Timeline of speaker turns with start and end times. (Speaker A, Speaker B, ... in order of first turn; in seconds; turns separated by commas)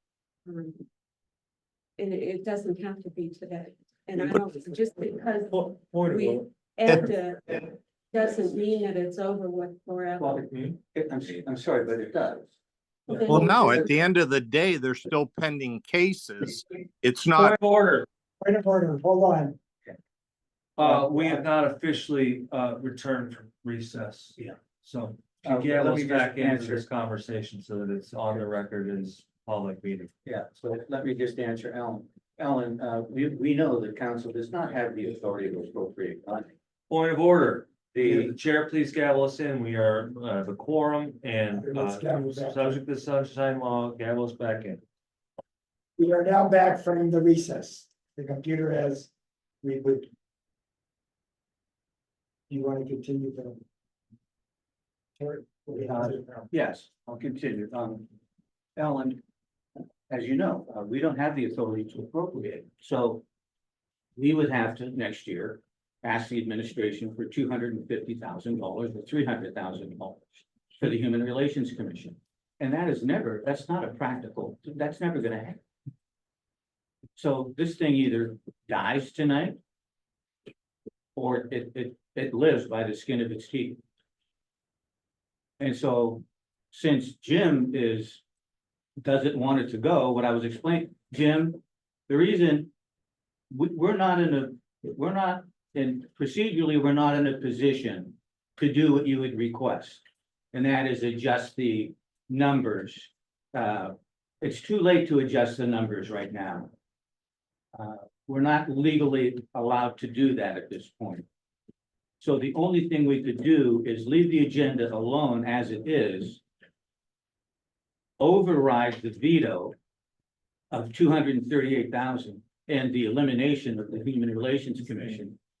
Speaker A: 0.5-0.8, Speaker A: 2.0-10.5, Speaker B: 5.5-6.4, Speaker C: 10.2-12.5, Speaker A: 13.1-13.8, Speaker C: 13.2-13.9, Speaker D: 13.3-17.5, Speaker B: 17.4-18.1, Speaker E: 18.4-19.6, Speaker B: 20.8-30.1, Speaker E: 20.8-21.5, Speaker C: 25.4-26.8, Speaker C: 30.2-36.5, Speaker B: 36.9-44.8, Speaker C: 38.0-38.3, Speaker E: 41.5-42.8, Speaker E: 46.0-49.1, Speaker E: 49.6-50.1, Speaker E: 52.5-53.6, Speaker E: 55.2-56.5, Speaker C: 55.9-58.1, Speaker C: 58.8-59.2, Speaker C: 60.1-63.2, Speaker C: 64.2-75.6, Speaker C: 77.2-79.6, Speaker C: 81.2-83.8, Speaker C: 85.6-88.2, Speaker C: 89.0-92.7, Speaker C: 93.5-106.7, Speaker C: 107.7-111.2, Speaker C: 112.2-116.4, Speaker C: 118.2-119.8, Speaker C: 120.7-125.4